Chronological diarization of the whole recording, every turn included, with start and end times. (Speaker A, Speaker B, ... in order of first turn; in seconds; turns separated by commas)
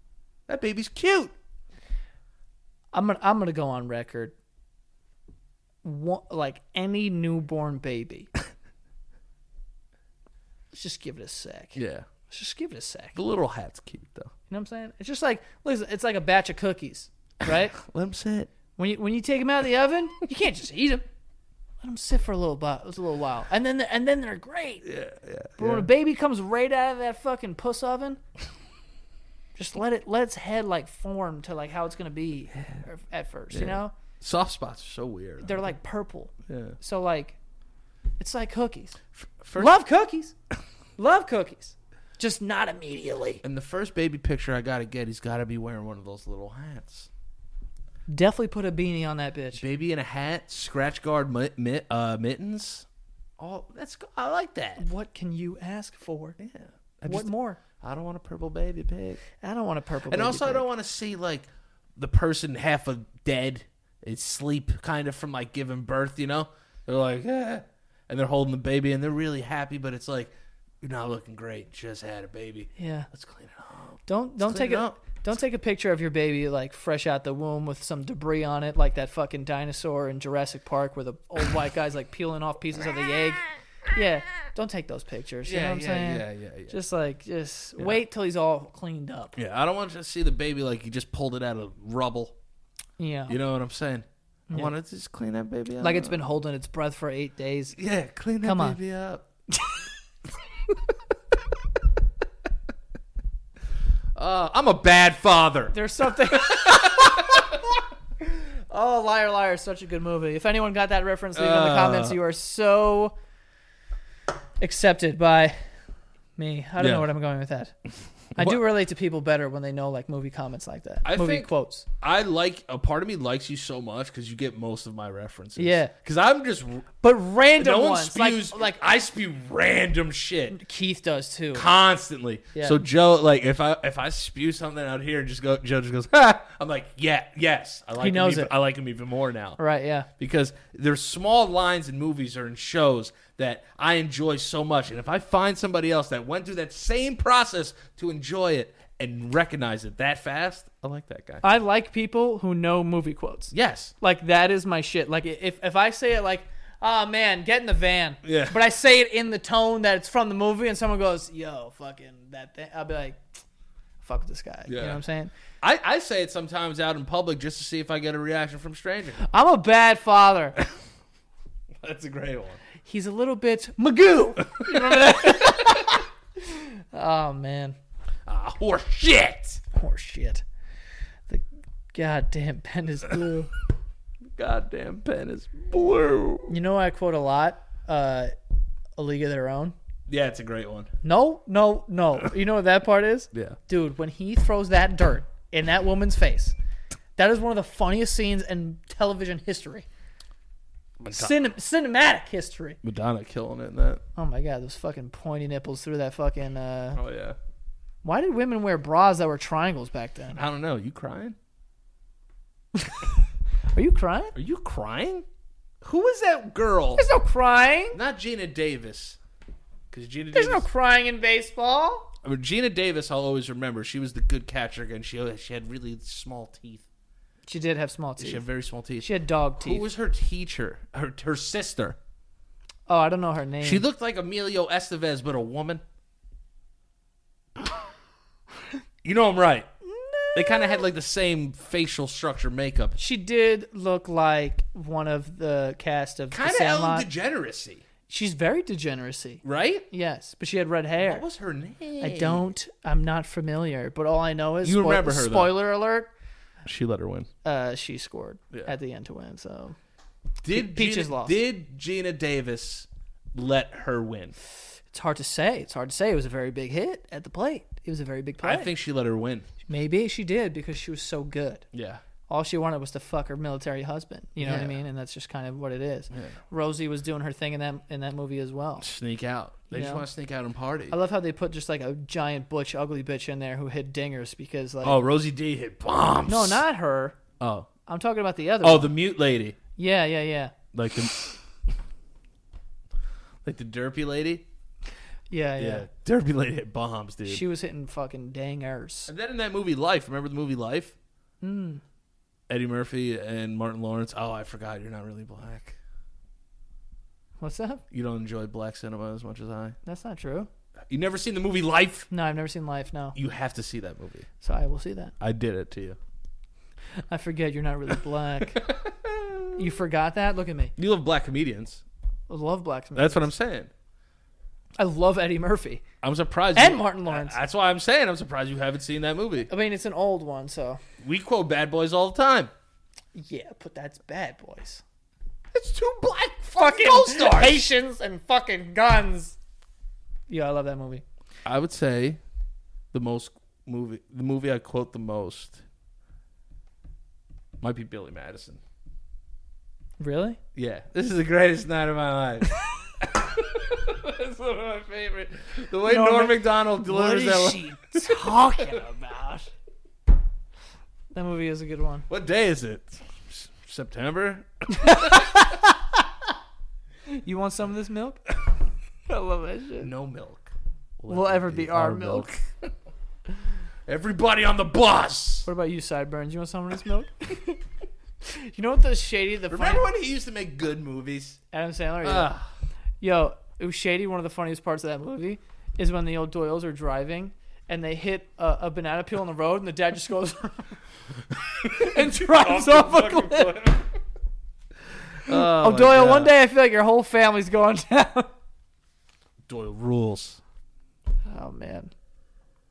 Speaker A: 0.5-1.3, Speaker B: 2.9-4.3, Speaker B: 5.8-8.3, Speaker B: 10.7-11.8, Speaker A: 11.7-12.1, Speaker B: 12.3-13.2, Speaker A: 13.2-14.3, Speaker B: 14.5-17.8, Speaker A: 17.5-18.5, Speaker B: 18.8-21.0, Speaker B: 21.8-24.9, Speaker A: 24.8-25.9, Speaker B: 25.6-28.2, Speaker B: 29.6-33.9, Speaker A: 33.5-35.6, Speaker B: 35.4-37.4, Speaker A: 36.5-36.8, Speaker B: 38.2-39.0, Speaker A: 39.1-39.7, Speaker B: 39.5-40.3, Speaker B: 41.0-43.4, Speaker A: 43.4-47.1, Speaker B: 48.1-49.6, Speaker A: 49.6-52.9, Speaker A: 53.4-54.8, Speaker B: 54.8-56.4, Speaker A: 56.4-59.2, Speaker B: 57.0-57.6, Speaker B: 59.4-60.7, Speaker A: 60.1-75.0, Speaker B: 72.8-73.1, Speaker B: 74.1-89.4, Speaker A: 85.5-86.8, Speaker A: 89.3-92.3, Speaker B: 93.0-93.4, Speaker A: 93.3-96.2, Speaker B: 95.8-97.8, Speaker A: 97.8-99.2, Speaker B: 98.4-98.8, Speaker B: 99.5-99.8, Speaker A: 104.1-107.6, Speaker B: 105.7-107.5, Speaker B: 108.3-113.1, Speaker A: 111.3-112.2, Speaker B: 114.6-115.6, Speaker B: 116.4-117.7, Speaker A: 116.8-117.1, Speaker B: 118.3-121.8, Speaker A: 118.3-118.6, Speaker A: 121.0-126.9, Speaker B: 125.6-125.9, Speaker B: 127.0-128.7, Speaker A: 127.6-130.6, Speaker B: 130.5-131.7, Speaker A: 131.5-139.6, Speaker B: 138.0-138.5, Speaker B: 139.6-140.1, Speaker A: 140.2-151.4, Speaker B: 151.4-163.2, Speaker A: 153.5-153.9, Speaker A: 158.2-158.6, Speaker B: 164.0-165.3, Speaker A: 164.7-165.0, Speaker A: 165.6-169.3, Speaker B: 169.2-170.6, Speaker A: 171.8-172.6, Speaker B: 172.8-177.8, Speaker A: 174.5-176.0, Speaker A: 178.2-179.6, Speaker B: 179.7-180.4, Speaker B: 181.3-183.5, Speaker A: 184.3-186.5, Speaker B: 186.5-188.3, Speaker B: 189.0-189.7, Speaker A: 190.1-190.9, Speaker B: 191.0-196.6, Speaker A: 193.3-193.6, Speaker B: 197.2-199.8, Speaker A: 201.0-201.3, Speaker B: 201.1-202.8, Speaker A: 202.8-204.0, Speaker B: 204.2-207.0, Speaker A: 206.9-207.4, Speaker B: 208.0-210.4, Speaker A: 210.3-211.4, Speaker B: 212.7-213.1, Speaker B: 213.7-214.3, Speaker A: 214.3-215.2, Speaker A: 215.8-217.1, Speaker B: 216.9-218.0, Speaker A: 217.9-219.2, Speaker A: 219.9-220.7, Speaker B: 220.3-222.1, Speaker A: 222.2-226.9, Speaker B: 227.5-228.4, Speaker A: 228.2-232.0, Speaker B: 229.0-229.9, Speaker B: 232.9-233.8, Speaker A: 233.6-235.8, Speaker A: 239.0-239.7, Speaker B: 239.9-240.8, Speaker A: 240.3-243.0, Speaker B: 243.0-247.1, Speaker A: 246.3-247.8, Speaker B: 248.1-251.2, Speaker A: 249.4-249.9, Speaker A: 251.0-252.5, Speaker B: 252.0-256.1, Speaker A: 254.6-255.5, Speaker A: 256.6-257.3, Speaker B: 257.4-259.8, Speaker A: 260.4-264.4, Speaker B: 260.5-261.4, Speaker B: 264.9-268.7, Speaker A: 268.4-269.5, Speaker B: 269.7-271.6, Speaker A: 271.7-272.0, Speaker B: 272.3-278.9, Speaker A: 274.4-274.8, Speaker A: 278.8-280.9, Speaker B: 279.7-280.1, Speaker B: 280.9-285.0, Speaker A: 284.8-286.6, Speaker B: 286.3-287.2, Speaker A: 287.4-287.7, Speaker B: 287.9-288.9, Speaker A: 288.6-289.6, Speaker B: 289.8-290.5, Speaker A: 290.7-291.2, Speaker A: 293.4-294.5, Speaker B: 295.3-295.9, Speaker A: 295.6-297.4, Speaker B: 297.3-299.1, Speaker A: 299.1-300.9, Speaker B: 301.4-301.8, Speaker A: 302.5-305.8, Speaker B: 307.4-307.8, Speaker A: 307.9-309.8, Speaker B: 309.8-310.5, Speaker A: 310.9-312.1, Speaker B: 312.1-313.1, Speaker A: 313.1-314.3, Speaker B: 314.4-315.1, Speaker A: 315.2-316.0, Speaker B: 317.1-318.8, Speaker A: 318.5-319.6, Speaker B: 319.5-320.7, Speaker A: 320.8-321.8, Speaker B: 322.3-323.3, Speaker A: 322.9-323.7, Speaker B: 324.8-325.8, Speaker A: 326.0-329.5, Speaker B: 326.5-327.4, Speaker B: 329.5-330.8, Speaker A: 331.0-332.5, Speaker B: 333.1-334.8, Speaker A: 335.5-337.7, Speaker B: 336.6-339.4, Speaker B: 340.3-341.0, Speaker A: 341.4-342.2, Speaker A: 342.9-345.6, Speaker A: 347.6-348.6, Speaker B: 350.0-350.4, Speaker A: 350.5-358.9, Speaker B: 355.8-359.5, Speaker B: 361.1-362.1, Speaker A: 362.1-365.4, Speaker B: 364.7-365.7, Speaker B: 367.1-368.3, Speaker B: 369.1-369.9, Speaker A: 369.8-370.5, Speaker A: 371.0-372.7, Speaker B: 371.1-372.3, Speaker A: 373.9-375.5, Speaker B: 375.4-377.6, Speaker B: 378.2-379.9, Speaker A: 379.5-381.4, Speaker B: 381.5-382.3, Speaker A: 382.0-382.5, Speaker B: 383.0-390.8, Speaker B: 391.6-393.6, Speaker A: 391.6-393.9, Speaker A: 395.2-396.3, Speaker B: 395.2-398.3, Speaker A: 399.4-400.4, Speaker B: 401.2-401.9